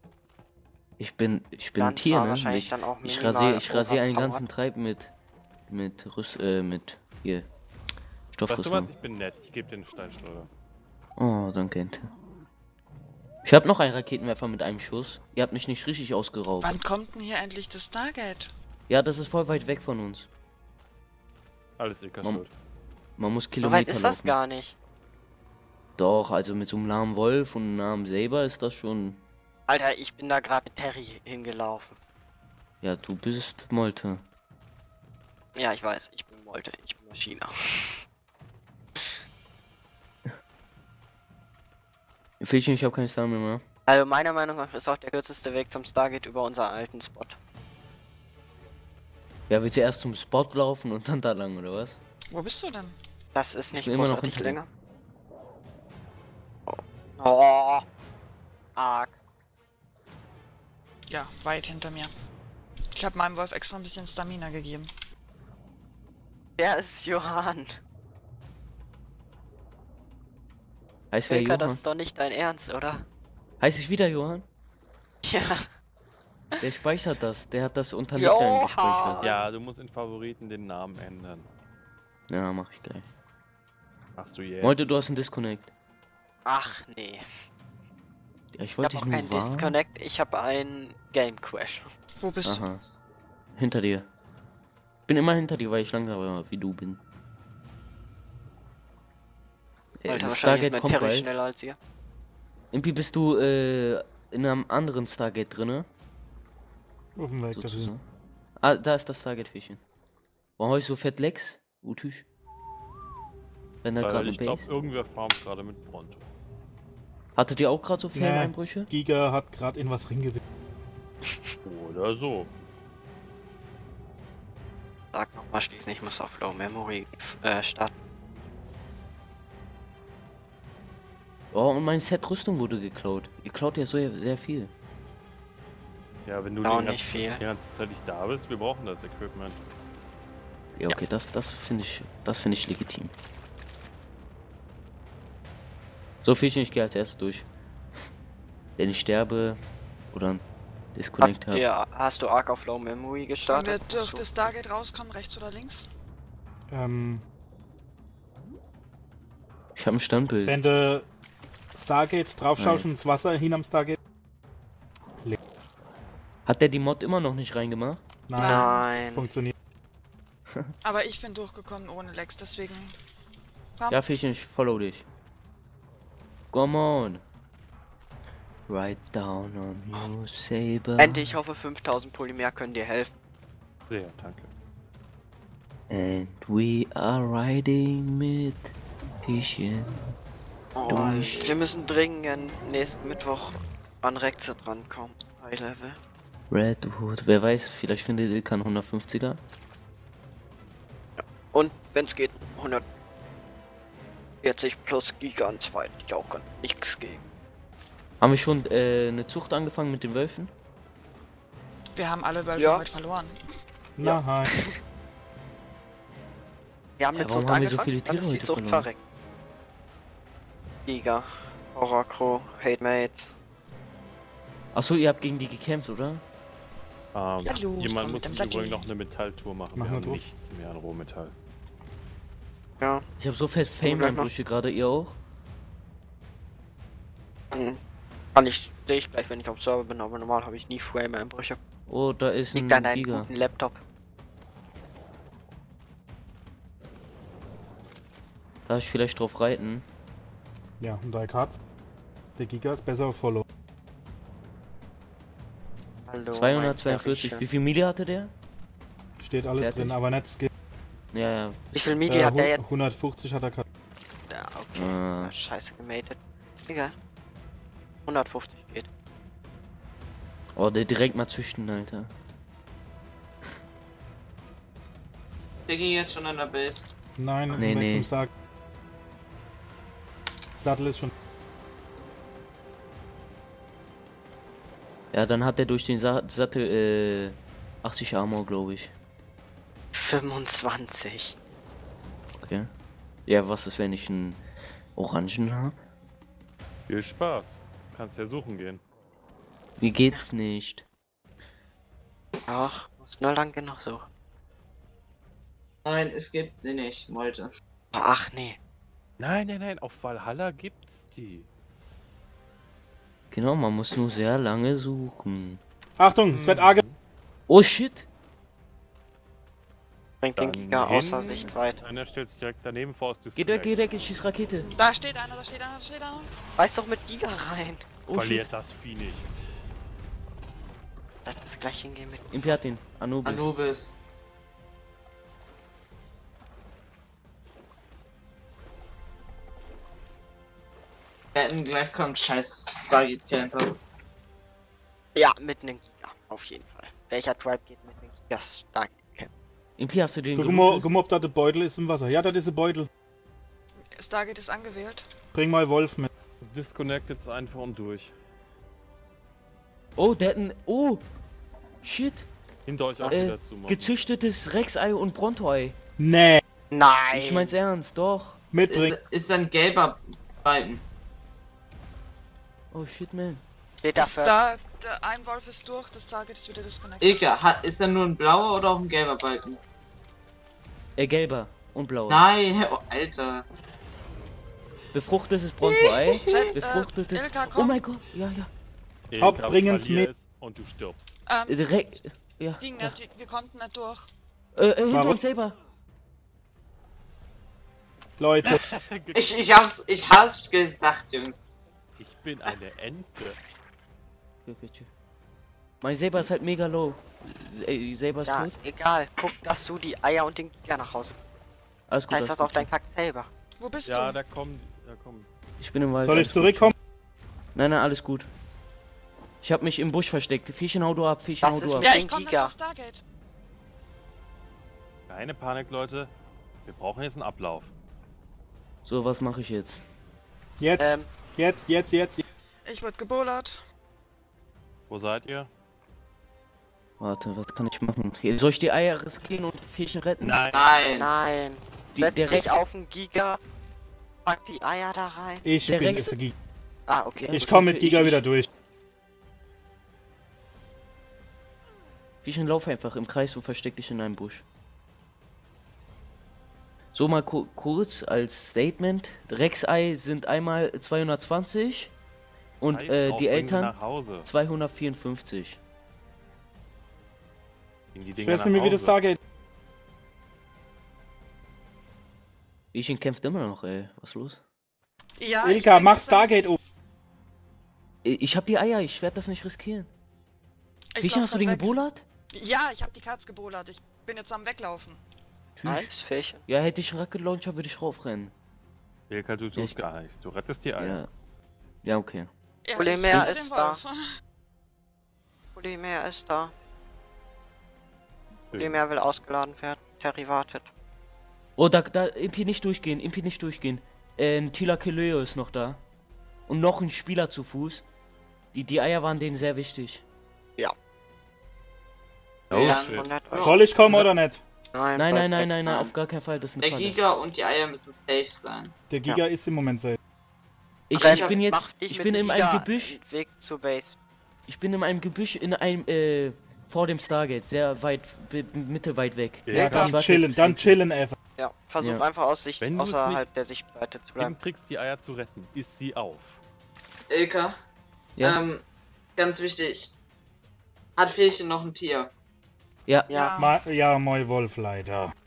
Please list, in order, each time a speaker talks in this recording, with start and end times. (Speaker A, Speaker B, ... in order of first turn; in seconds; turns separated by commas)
Speaker A: 1.0-5.1, Speaker B: 1.8-4.4, Speaker A: 5.7-7.5, Speaker A: 8.3-8.9, Speaker C: 8.5-10.5, Speaker A: 11.2-12.1, Speaker A: 13.4-16.8, Speaker D: 16.6-18.5, Speaker A: 18.9-20.3, Speaker C: 21.8-22.5, Speaker A: 23.2-24.4, Speaker B: 23.6-24.8, Speaker A: 26.0-29.2, Speaker B: 29.7-32.0, Speaker A: 32.8-34.2, Speaker B: 35.5-37.9, Speaker A: 42.4-43.6, Speaker B: 43.9-47.4, Speaker A: 49.5-52.0, Speaker D: 52.3-53.0, Speaker B: 53.4-54.7, Speaker A: 53.7-54.6, Speaker B: 56.7-57.9, Speaker B: 58.8-59.2, Speaker D: 61.1-62.1, Speaker D: 63.0-64.9, Speaker B: 66.6-67.8, Speaker A: 71.1-71.8, Speaker B: 71.3-73.0, Speaker A: 73.6-74.5, Speaker B: 75.2-75.7, Speaker A: 76.6-79.2, Speaker D: 78.2-79.5, Speaker C: 79.2-81.5, Speaker A: 82.3-83.1, Speaker C: 84.2-84.9, Speaker A: 84.6-85.7, Speaker B: 86.5-87.2, Speaker A: 88.5-89.8, Speaker B: 88.8-91.9, Speaker D: 92.2-92.7, Speaker A: 92.4-92.8, Speaker A: 93.6-94.1, Speaker A: 95.1-97.0, Speaker A: 100.0-101.3, Speaker B: 100.1-101.8, Speaker A: 102.7-105.9, Speaker E: 107.2-107.9, Speaker A: 107.5-108.0, Speaker A: 108.6-109.8, Speaker A: 110.6-112.2, Speaker A: 113.8-114.7, Speaker C: 114.0-116.3, Speaker A: 117.4-118.9, Speaker E: 118.1-120.4, Speaker C: 121.7-122.5, Speaker B: 125.1-127.9, Speaker A: 131.5-134.7, Speaker C: 136.3-139.6, Speaker B: 136.6-137.4, Speaker A: 140.8-143.1, Speaker A: 146.2-147.5, Speaker A: 148.8-149.6, Speaker A: 150.1-150.4, Speaker A: 150.9-151.6, Speaker B: 151.2-154.3, Speaker D: 153.5-155.9, Speaker E: 156.7-157.2, Speaker A: 159.8-160.6, Speaker E: 160.5-161.1, Speaker E: 161.7-164.0, Speaker A: 162.6-162.9, Speaker A: 166.5-168.0, Speaker E: 168.3-169.5, Speaker D: 168.4-168.9, Speaker B: 168.4-169.3, Speaker D: 170.8-173.0, Speaker A: 173.9-175.1, Speaker A: 176.5-177.2, Speaker A: 178.7-181.3, Speaker B: 181.0-183.1, Speaker C: 183.9-184.5, Speaker A: 185.9-188.7, Speaker A: 189.2-189.9, Speaker B: 190.8-196.0, Speaker A: 190.9-191.4, Speaker F: 190.9-191.7, Speaker A: 196.5-199.4, Speaker B: 201.2-202.8, Speaker B: 204.4-207.2, Speaker A: 208.2-210.5, Speaker D: 212.0-213.4, Speaker B: 212.6-212.8, Speaker E: 214.0-214.5, Speaker B: 214.0-214.8, Speaker B: 217.0-219.0, Speaker A: 217.2-218.9, Speaker B: 220.9-223.3, Speaker A: 224.7-226.2, Speaker C: 227.1-231.3, Speaker D: 227.4-228.9, Speaker E: 229.8-230.2, Speaker B: 232.8-233.1, Speaker A: 233.2-235.2, Speaker B: 233.8-234.3, Speaker B: 237.5-237.8, Speaker B: 238.3-241.6, Speaker A: 241.9-243.3, Speaker B: 242.5-243.8, Speaker A: 248.7-249.8, Speaker E: 250.8-251.6, Speaker E: 252.4-253.4, Speaker B: 256.1-257.4, Speaker A: 256.3-258.3, Speaker E: 259.2-260.5, Speaker A: 259.6-260.0, Speaker A: 261.1-262.0, Speaker B: 261.8-262.6, Speaker E: 262.1-263.6, Speaker B: 264.3-266.9, Speaker A: 264.8-265.3, Speaker B: 268.1-268.9, Speaker A: 270.6-272.1, Speaker F: 275.7-276.9, Speaker E: 277.2-278.3, Speaker A: 277.5-278.1, Speaker E: 280.6-281.1, Speaker A: 285.1-288.9, Speaker B: 289.9-291.4, Speaker A: 292.4-292.7, Speaker A: 293.3-294.4, Speaker A: 295.0-295.8, Speaker C: 296.9-298.8, Speaker A: 299.8-300.8, Speaker B: 302.5-304.1, Speaker F: 305.8-307.5, Speaker B: 307.9-308.6, Speaker C: 309.2-311.5, Speaker A: 313.3-315.6, Speaker E: 316.0-316.8, Speaker C: 316.3-317.0, Speaker A: 317.5-318.1, Speaker B: 320.2-321.8, Speaker C: 320.4-323.7, Speaker A: 323.4-324.7, Speaker D: 324.8-326.3, Speaker B: 326.6-327.9, Speaker A: 328.1-328.5, Speaker C: 328.1-329.3, Speaker B: 331.2-332.6, Speaker A: 332.3-333.5, Speaker F: 333.2-334.0, Speaker F: 341.3-343.7, Speaker B: 345.1-349.3, Speaker A: 349.8-350.9, Speaker E: 350.4-352.9, Speaker D: 353.8-355.1, Speaker E: 355.3-356.1, Speaker C: 356.4-358.1, Speaker A: 360.0-361.1, Speaker A: 361.8-362.3, Speaker C: 362.7-363.9, Speaker B: 363.0-363.3, Speaker A: 363.0-365.8, Speaker E: 366.0-366.4, Speaker B: 366.7-367.6, Speaker A: 367.1-368.4, Speaker E: 368.5-369.0, Speaker F: 368.7-370.8, Speaker A: 372.7-373.4, Speaker B: 373.8-374.4, Speaker D: 374.0-377.2, Speaker F: 377.0-379.6, Speaker A: 381.0-382.3, Speaker F: 382.1-383.4, Speaker A: 384.9-388.5, Speaker F: 386.0-386.5, Speaker D: 386.2-387.8, Speaker C: 389.1-391.1, Speaker E: 389.2-390.1, Speaker D: 391.3-391.6, Speaker A: 391.5-392.9, Speaker D: 392.6-394.1, Speaker A: 394.6-395.6, Speaker E: 394.9-395.2, Speaker E: 398.2-398.6, Speaker C: 398.4-399.3, Speaker F: 399.1-401.4, Speaker C: 402.0-403.4, Speaker A: 404.4-404.9, Speaker A: 405.8-408.5, Speaker B: 408.3-411.2, Speaker A: 411.9-412.7, Speaker B: 412.1-413.3, Speaker D: 413.6-414.2, Speaker C: 413.9-415.3, Speaker A: 415.6-416.7, Speaker E: 416.0-416.7, Speaker A: 417.6-418.3, Speaker A: 419.4-422.0, Speaker B: 421.4-422.5, Speaker D: 421.8-423.0, Speaker C: 425.1-426.1, Speaker C: 426.6-427.7, Speaker A: 428.9-429.8, Speaker E: 430.6-432.2, Speaker B: 430.8-431.1, Speaker D: 432.7-433.6, Speaker C: 434.9-435.5, Speaker A: 437.0-440.5, Speaker C: 440.2-440.8, Speaker F: 440.5-441.1, Speaker B: 440.9-443.4, Speaker A: 441.9-442.5, Speaker B: 444.2-445.4, Speaker E: 445.4-446.3, Speaker A: 445.6-446.1, Speaker B: 446.9-447.4, Speaker A: 447.2-448.2, Speaker E: 447.3-448.5, Speaker A: 452.2-454.4, Speaker A: 456.9-461.9, Speaker A: 462.6-465.6, Speaker C: 462.7-464.3, Speaker C: 467.9-469.0, Speaker E: 468.2-469.2, Speaker A: 472.7-474.4, Speaker D: 475.2-476.4, Speaker E: 475.4-476.6, Speaker A: 478.0-479.9, Speaker D: 480.9-485.0, Speaker A: 481.0-482.0, Speaker A: 485.6-485.9, Speaker B: 485.7-486.4, Speaker A: 486.5-488.3, Speaker C: 489.1-491.1, Speaker A: 490.8-491.1, Speaker A: 491.8-492.3, Speaker D: 492.6-494.0, Speaker B: 492.8-493.8, Speaker B: 495.6-496.5, Speaker C: 498.5-498.8, Speaker B: 498.6-500.7, Speaker A: 501.6-505.8, Speaker A: 506.5-507.8, Speaker A: 508.5-510.0, Speaker C: 512.5-513.2, Speaker B: 512.5-513.5, Speaker F: 512.5-513.6, Speaker E: 513.4-514.4, Speaker B: 514.7-515.8, Speaker A: 515.0-517.0, Speaker F: 516.6-518.7, Speaker E: 518.9-520.0, Speaker A: 520.9-523.0, Speaker B: 521.0-524.0, Speaker F: 521.0-521.4, Speaker A: 524.5-530.8, Speaker C: 529.5-529.9, Speaker E: 529.5-531.2, Speaker B: 531.4-534.4, Speaker C: 532.6-533.3, Speaker C: 534.2-536.4, Speaker F: 537.1-537.5, Speaker F: 538.2-538.6, Speaker F: 539.2-540.0, Speaker F: 541.0-542.1, Speaker D: 543.1-543.6, Speaker E: 543.4-545.1